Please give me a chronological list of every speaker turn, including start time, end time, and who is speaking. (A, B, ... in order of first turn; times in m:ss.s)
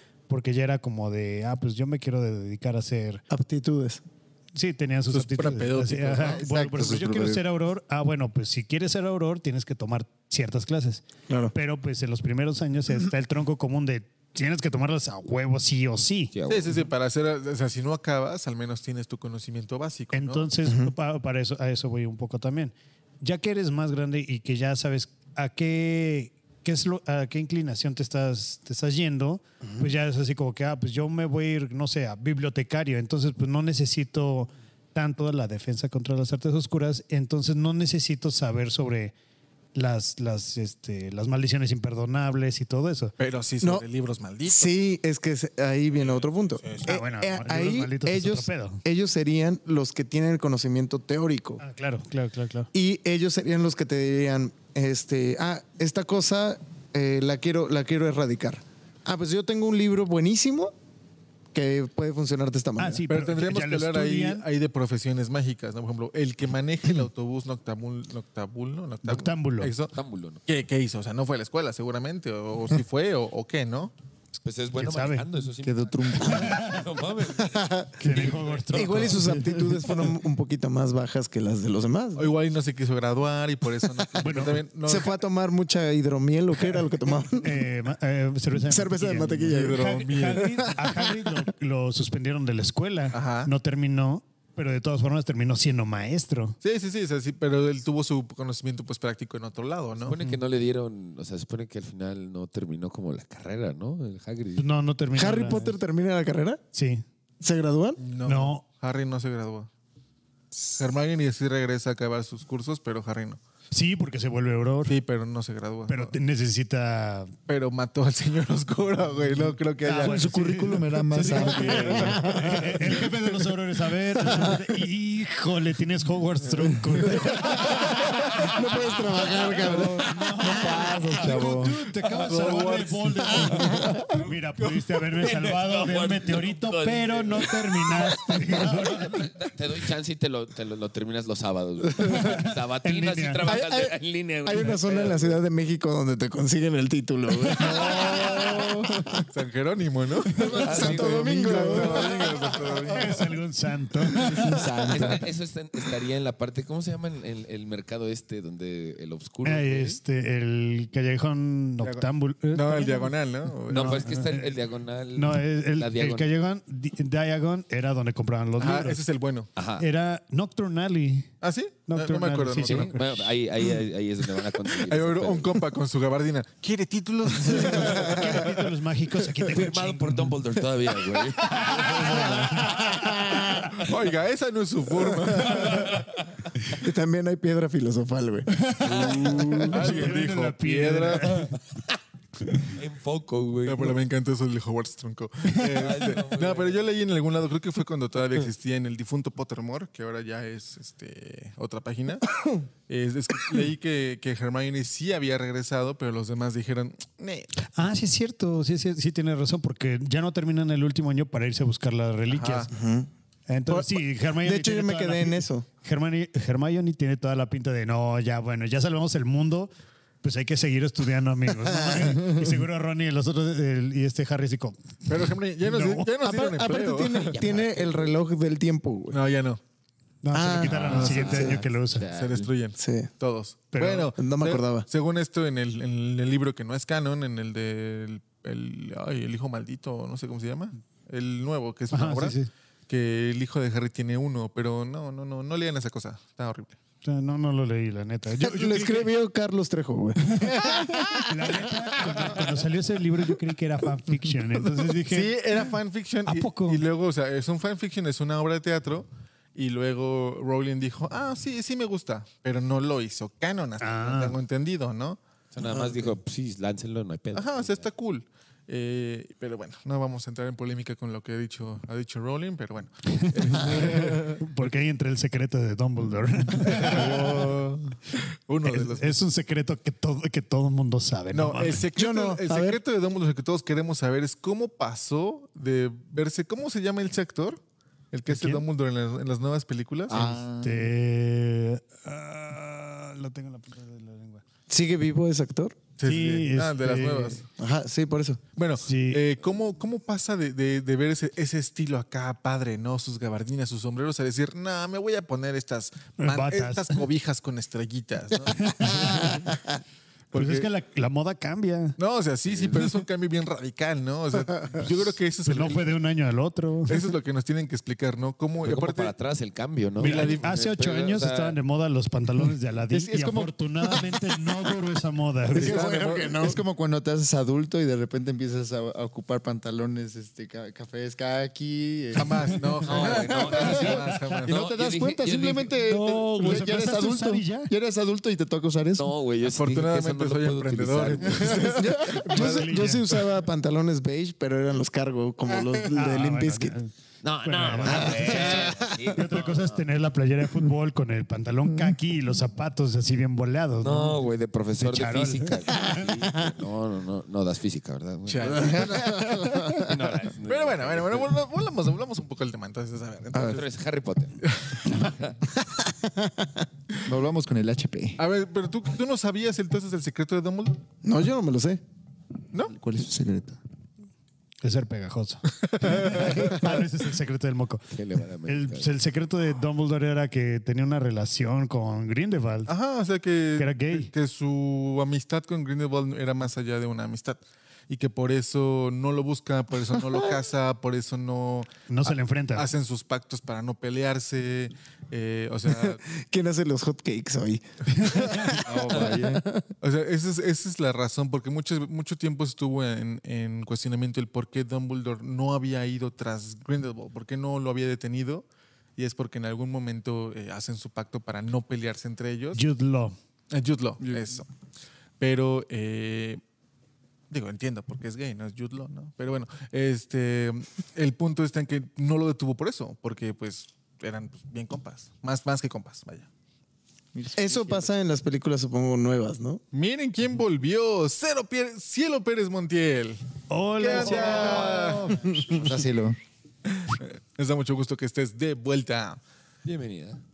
0:00.3-0:03.2 A
0:03.3-0:04.0 B
0:04.6-0:16.3 A
0:05.1-0:06.5 C
0:06.5-0:07.4 B
0:16.3-0:16.8 D
0:16.5-0:20.5 C
0:20.1-0:39.1 A
0:20.6-0:20.9 B
0:39.7-0:43.1 A
0:43.2-0:44.8 C
0:44.5-0:51.6 B
0:45.9-0:47.0 C
0:46.8-0:48.8 A
0:51.6-0:52.7 A
0:52.7-1:00.7 B
1:01.5-1:03.1 B
1:02.8-1:04.4 A
1:03.1-1:10.0 C
1:09.0-1:09.7 A
1:10.0-1:10.4 D
1:10.5-1:13.9 C
1:14.4-1:19.2 D
1:14.8-1:15.2 A
1:15.6-1:16.8 E
1:16.3-1:16.8 A
1:17.4-1:22.3 B
1:18.0-1:19.9 A
1:22.2-1:25.1 C
1:24.2-1:24.6 A
1:24.9-1:27.5 B
1:27.4-1:36.6 A
1:28.6-1:30.0 B
1:29.5-1:30.8 C
1:33.1-1:33.5 C
1:36.6-1:40.2 C
1:40.0-1:44.7 D
1:44.6-1:45.8 A
1:45.2-1:46.6 B
1:46.7-1:47.0 A
1:47.4-1:48.0 B
1:48.0-1:49.7 C
1:48.2-1:48.6 A
1:50.8-1:53.4 C
1:53.7-1:55.0 A
1:54.9-1:56.1 C
1:55.9-1:57.3 A
1:57.5-2:00.3 C
1:59.8-2:08.4 A
2:00.0-2:02.7 E
2:01.6-2:02.6 C
2:01.9-2:02.6 B
2:07.1-2:11.2 B
2:09.1-2:09.9 D
2:09.6-2:19.3 A
2:10.4-2:11.8 E
2:10.5-2:11.2 D
2:12.1-2:14.9 C
2:13.5-2:14.0 B
2:15.2-2:25.4 D
2:22.1-2:23.5 A
2:23.5-2:29.2 B
2:27.6-2:28.7 D
2:29.3-2:33.3 C
2:30.3-2:33.0 B
2:30.4-2:32.1 D
2:32.9-2:34.6 A
2:34.2-2:35.2 B
2:34.3-2:35.2 E
2:34.4-2:40.0 D
2:39.4-2:43.1 A
2:41.8-2:44.2 C
2:43.6-2:44.6 A
2:43.7-2:46.3 D
2:45.2-2:49.0 A
2:48.6-2:49.5 C
2:49.6-2:49.8 D
2:49.8-2:51.3 A
2:51.4-2:53.0 C
2:51.9-2:53.1 A
2:52.6-2:55.6 D
2:54.7-2:58.7 C
2:57.5-3:00.4 A
2:59.5-3:02.6 D
3:01.4-3:02.9 C
3:01.5-3:03.5 A
3:01.8-3:03.7 B
3:03.7-3:06.2 C
3:05.6-3:06.1 D
3:06.8-3:09.7 B
3:08.5-3:11.6 A
3:08.8-3:10.1 D
3:09.1-3:11.5 C
3:12.7-3:14.0 D
3:13.6-3:22.3 C
3:15.6-3:16.8 D
3:22.9-3:27.5 C
3:27.8-3:32.7 A
3:32.3-3:32.7 C
3:32.7-3:33.1 B
3:33.5-3:45.1 A
3:33.7-3:35.7 B
3:41.7-3:42.4 B
3:45.1-3:47.4 C
3:45.6-3:46.1 A
3:46.2-3:49.2 B
3:47.3-3:48.2 D
3:49.1-3:49.6 C
3:50.2-3:52.0 A
3:50.3-3:51.6 B
3:50.7-3:51.5 C
3:50.7-3:52.5 D
3:52.1-4:02.4 C
3:52.8-3:53.1 B
3:53.7-3:54.1 A
3:54.2-3:54.9 B
4:01.9-4:02.5 A
4:02.9-4:06.8 C
4:07.0-4:09.1 A
4:08.4-4:12.4 B
4:10.4-4:10.7 A
4:11.2-4:15.3 A
4:15.0-4:25.2 C
4:16.3-4:16.8 A
4:23.8-4:24.4 A
4:25.5-4:27.9 D
4:25.6-4:26.1 B
4:27.3-4:34.6 C
4:33.2-4:37.6 A
4:36.6-4:39.2 C
4:38.6-4:41.8 A
4:41.3-4:47.6 C
4:42.0-4:42.8 B
4:48.1-4:50.2 C
4:48.3-4:48.6 A
4:50.1-4:50.9 E
4:50.1-4:54.4 A
4:54.7-4:55.9 B
4:56.0-4:57.4 C
4:56.0-4:57.4 A
4:57.6-4:58.4 B
4:58.6-5:09.4 C
4:58.8-4:59.2 A
5:06.2-5:07.0 A
5:08.5-5:09.5 A
5:10.3-5:10.7 C
5:10.3-5:12.0 A
5:12.0-5:15.9 C
5:15.4-5:17.0 A
5:16.9-5:19.1 C
5:18.6-5:21.6 D
5:20.0-5:20.6 C
5:20.0-5:25.8 A
5:22.9-5:23.6 E
5:25.6-5:26.6 B
5:25.6-5:26.4 C
5:26.2-5:32.6 E
5:32.1-5:34.6 C
5:32.8-5:35.8 D
5:33.6-5:34.4 A
5:34.5-5:39.1 E
5:35.8-5:37.7 A
5:39.0-5:41.8 D
5:39.5-5:42.9 C
5:41.6-5:46.8 B
5:42.3-5:43.1 A
5:45.9-5:46.9 A
5:47.2-5:49.8 D
5:47.4-5:54.2 A
5:47.9-5:49.2 B
5:53.8-6:01.4 D
5:54.8-5:56.0 A
5:58.3-5:59.8 C
5:58.5-5:59.9 B
6:00.4-6:03.6 C
6:03.3-6:03.6 B
6:03.4-6:04.4 D
6:04.4-6:05.0 C
6:04.9-6:05.4 D
6:05.6-6:06.7 B
6:07.0-6:08.2 E
6:08.2-6:10.8 C
6:11.0-6:11.8 B
6:12.7-6:13.6 E
6:14.6-6:17.9 A
6:15.7-6:16.5 C
6:17.9-6:18.9 D
6:18.5-6:22.7 A
6:22.7-6:36.0 C
6:23.6-6:24.1 A
6:31.9-6:32.7 A
6:35.7-6:39.7 B
6:38.0-6:39.2 C
6:38.6-6:39.4 E
6:39.8-6:52.6 C
6:52.5-6:53.2 A
6:53.5-6:54.5 C
6:55.2-6:56.4 C
6:57.3-7:06.3 C
7:07.1-7:07.9 E
7:07.4-7:09.6 B
7:09.7-7:13.2 C
7:13.5-7:15.2 A
7:13.8-7:15.2 C
7:14.3-7:16.2 E
7:16.7-7:19.2 C
7:19.6-7:20.2 D